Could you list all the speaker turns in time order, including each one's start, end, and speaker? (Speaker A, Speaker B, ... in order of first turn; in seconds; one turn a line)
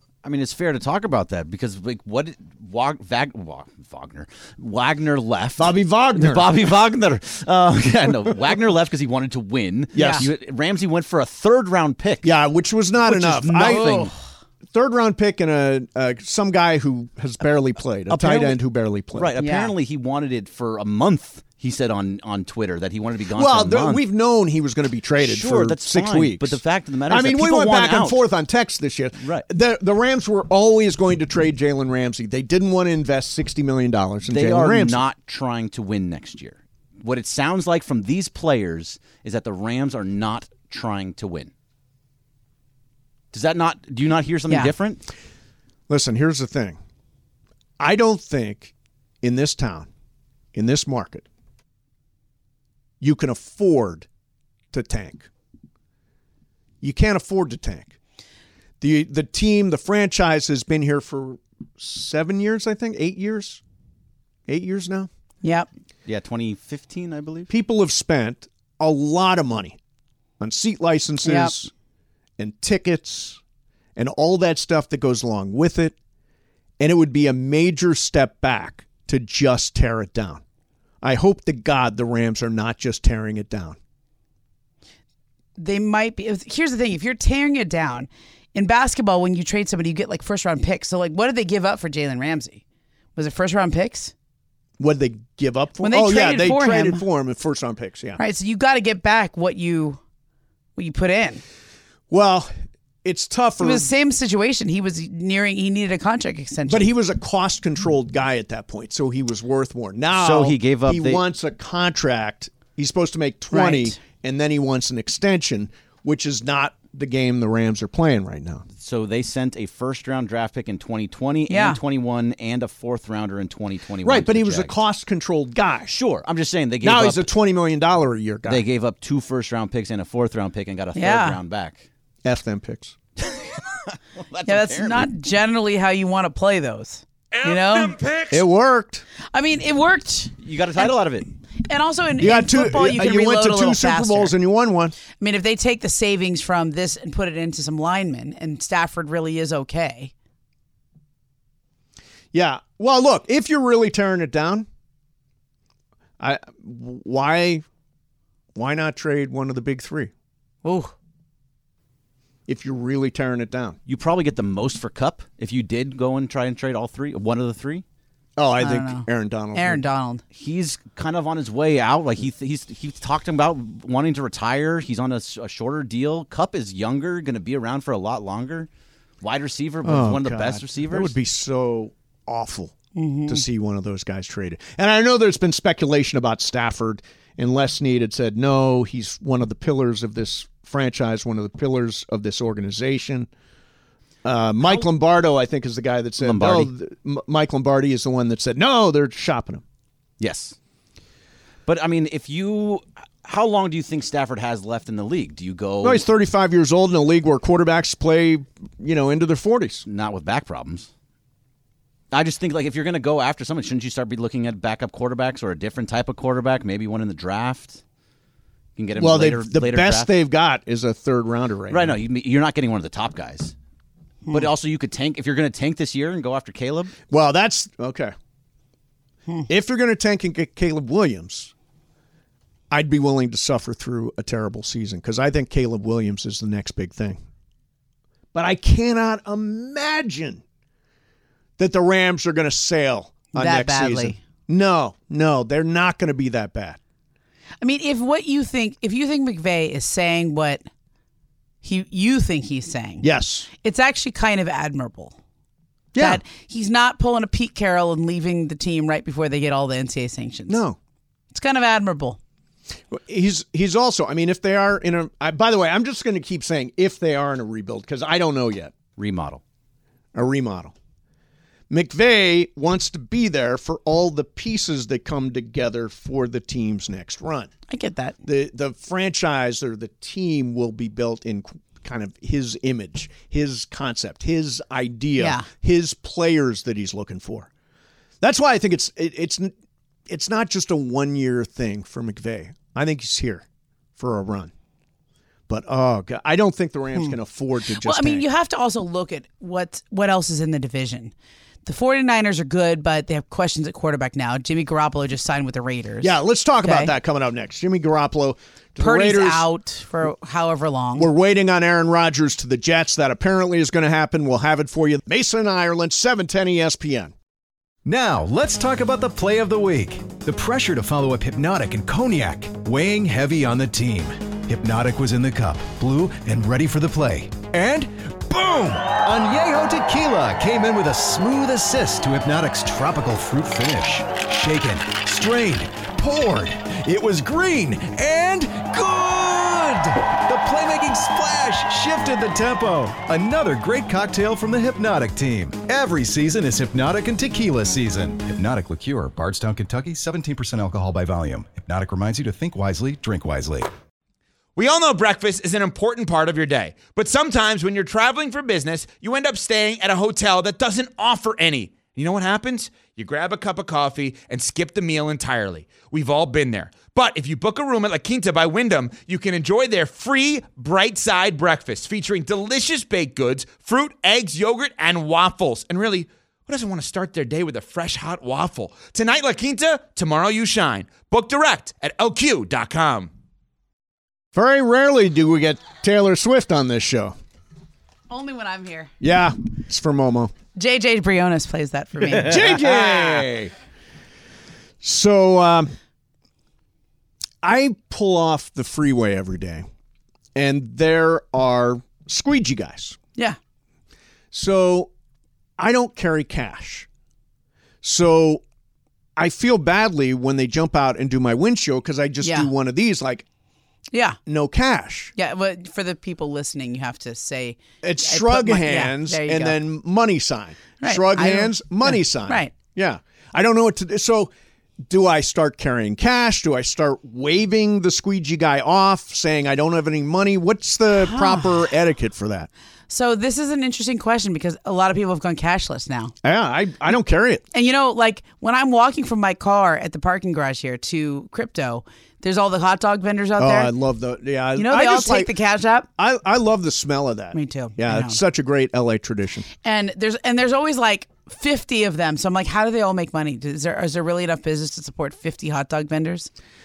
Speaker A: 0.2-12.3
Speaker B: 5.6-6.5
Speaker B: 9.9-10.3
Speaker C: 10.0-10.2
Speaker B: 12.2-14.1
Speaker A: 13.1-14.1
Speaker C: 13.5-14.1
Speaker B: 14.7-19.3
Speaker A: 18.1-18.6
Speaker A: 19.1-24.0
Speaker C: 19.4-19.7
Speaker B: 23.3-35.0
Speaker A: 25.2-28.2
Speaker A: 29.2-29.4
Speaker A: 34.3-41.5
Speaker A: 43.3-45.0
Speaker B: 45.9-46.8
Speaker B: 47.8-49.9
Speaker B: 50.5-51.3
Speaker B: 53.0-54.1
Speaker B: 54.7-55.3
Speaker B: 56.8-58.0
Speaker B: 58.8-63.6
Speaker B: 64.5-65.1
Speaker C: 65.4-65.7
Speaker A: 66.1-67.5
Speaker B: 67.5-69.8
Speaker B: 70.4-71.7
Speaker C: 71.2-71.5
Speaker B: 72.4-73.4
Speaker B: 74.0-76.0
Speaker B: 76.8-80.4
Speaker B: 81.0-83.8
Speaker C: 85.6-92.6
Speaker C: 93.2-94.1
Speaker B: 94.8-98.2
Speaker C: 95.8-97.0
Speaker C: 98.2-100.0
Speaker C: 100.8-101.4
Speaker B: 102.1-102.5
Speaker B: 103.0-103.9
Speaker C: 103.6-106.9
Speaker B: 106.7-118.7
Speaker A: 110.1-111.2
Speaker C: 113.5-114.0
Speaker A: 118.8-124.8
Speaker C: 121.5-121.8
Speaker B: 124.0-126.0
Speaker A: 125.9-127.3
Speaker B: 126.8-128.7
Speaker A: 128.5-131.8
Speaker C: 130.9-131.4
Speaker B: 132.2-133.0
Speaker A: 133.2-135.1
Speaker C: 134.5-138.0
Speaker D: 137.3-138.4
Speaker B: 138.3-139.0
Speaker C: 139.3-140.9
Speaker A: 140.4-141.3
Speaker C: 141.7-144.3
Speaker B: 142.2-145.0
Speaker C: 145.2-150.1
Speaker B: 152.3-154.7
Speaker B: 156.2-157.7
Speaker B: 158.6-160.1
Speaker C: 160.6-160.9
Speaker B: 162.5-163.8
Speaker A: 163.9-167.8
Speaker B: 168.4-169.8
Speaker C: 168.6-170.2
Speaker A: 170.3-178.7
Speaker A: 179.2-181.1
Speaker B: 179.8-182.8
Speaker C: 182.9-183.4
Speaker B: 183.3-193.3
Speaker B: 194.2-199.6
Speaker A: 196.2-196.7
Speaker A: 200.2-200.6
Speaker A: 201.7-206.1
Speaker B: 205.8-209.9
Speaker A: 209.9-210.9
Speaker A: 212.1-217.8
Speaker A: 218.8-220.1
Speaker B: 219.0-222.0
Speaker A: 221.7-223.5
Speaker A: 224.3-226.9
Speaker B: 227.1-228.1
Speaker B: 229.5-231.5
Speaker B: 232.7-237.2
Speaker B: 238.3-240.4
Speaker B: 241.6-246.8
Speaker C: 243.3-244.2
Speaker C: 247.6-250.7
Speaker C: 251.6-253.1
Speaker B: 253.0-253.5
Speaker C: 253.6-255.2
Speaker B: 255.9-256.2
Speaker C: 256.0-260.6
Speaker B: 260.5-260.8
Speaker C: 261.3-262.2
Speaker B: 262.9-268.8
Speaker A: 269.0-269.4
Speaker B: 270.1-270.7
Speaker B: 271.7-277.5
Speaker C: 277.7-278.2
Speaker B: 278.2-287.5
Speaker C: 285.2-285.5
Speaker B: 288.2-289.5
Speaker B: 290.1-293.4
Speaker B: 294.0-294.5
Speaker B: 295.5-298.3
Speaker C: 297.8-301.1
Speaker C: 301.6-306.9
Speaker B: 306.0-309.5
Speaker C: 308.8-311.1
Speaker B: 311.0-317.1
Speaker E: 317.9-353.7
Speaker D: 354.6-383.1
Speaker B: 384.3-387.2
Speaker C: 388.1-388.9
Speaker B: 389.0-390.3
Speaker C: 390.6-392.6
Speaker B: 392.1-393.5
Speaker B: 394.8-395.7
Speaker B: 397.4-399.7
Speaker B: 400.4-403.0
Speaker B: 404.3-404.9
Speaker B: 405.6-406.9
Speaker B: 407.8-408.4
Speaker B: 409.2-413.3
Speaker C: 412.2-412.5
Speaker C: 413.9-414.2
Speaker B: 414.3-415.1
Speaker C: 415.2-419.6
Speaker B: 417.8-424.3
Speaker C: 420.8-422.5
Speaker B: 424.8-432.5
Speaker C: 431.0-431.6
Speaker C: 432.9-436.1
Speaker B: 436.2-437.4
Speaker C: 437.5-443.7
Speaker B: 443.4-445.3
Speaker C: 444.6-445.9
Speaker B: 446.0-449.5
Speaker C: 447.3-448.2
Speaker C: 449.6-456.3